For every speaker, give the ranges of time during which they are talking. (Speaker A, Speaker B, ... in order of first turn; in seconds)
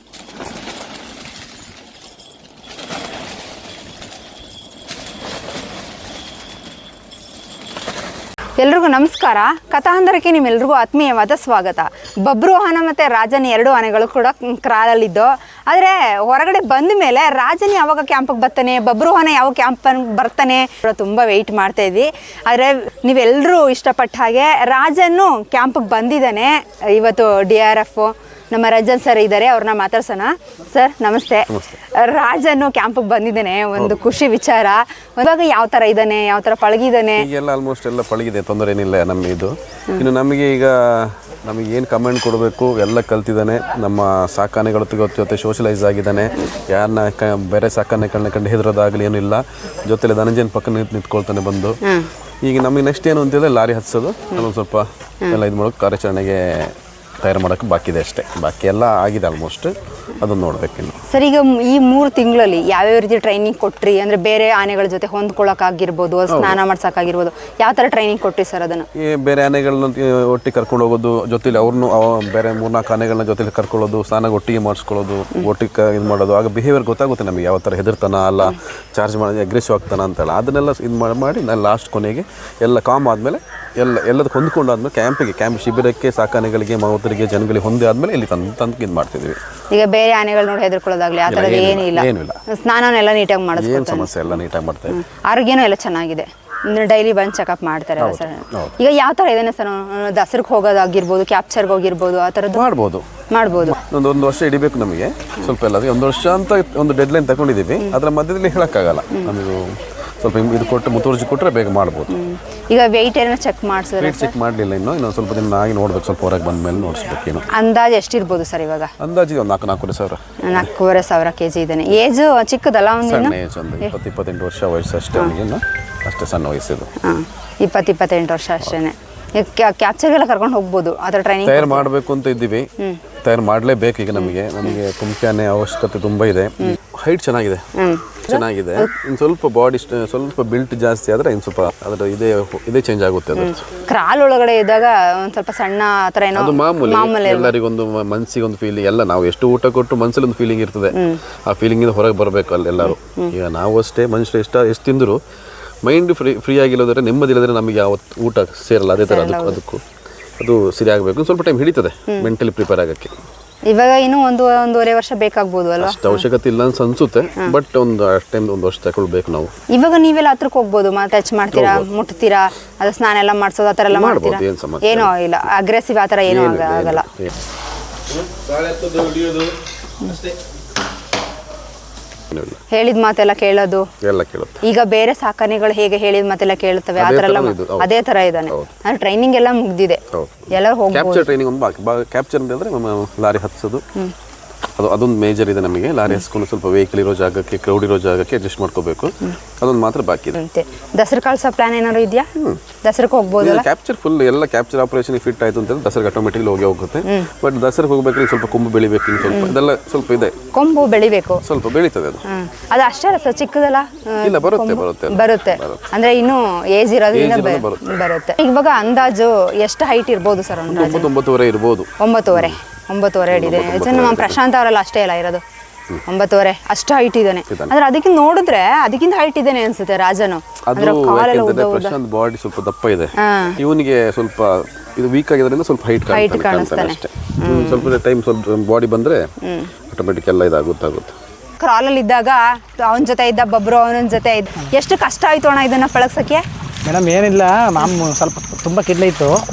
Speaker A: 8.6-37.3, 51.8-52.1, 61.1-68.9, 89.7-94.4, 94.9-102.7, 103.3-103.8, 112.1-114.3, 117.5-118.9, 120.4-123.9, 127.0-131.9, 134.2-134.8, 137.8-138.9, 143.4-147.5, 150.9-151.2, 152.8-153.3, 159.0-159.6, 163.7-166.3, 169.7-177.1, 182.7-183.9, 184.6-191.3, 200.4-202.3, 202.8-203.7, 207.1-207.3, 209.3-209.6, 210.5-211.4, 212.2-221.1, 222.0-225.4, 226.1-232.0, 233.2-233.6, 236.1-237.9, 239.4-239.7, 241.6-246.4
Speaker B: 37.2-51.8, 52.4-61.0, 66.3-66.6, 68.9-89.4, 91.3-92.4, 93.6-95.0, 98.0-98.7, 102.5-103.1, 103.6-112.1, 114.0-117.5, 119.0-120.6, 123.0-126.9, 131.4-132.7, 133.2-137.7, 138.3-143.6, 146.3-155.2, 155.8-159.8, 160.4-163.1, 165.8-169.5, 171.5-171.9, 173.9-175.1, 176.3-177.3, 178.5-179.5, 182.3-182.6, 184.0-184.6, 187.0-187.9, 190.1-193.8, 194.8-200.4, 203.4-210.4, 211.4-212.2, 214.2-215.9, 217.1-218.1, 220.7-222.6, 223.3-224.4, 230.7-239.3, 239.9-241.1
Speaker C: 246.8-249.4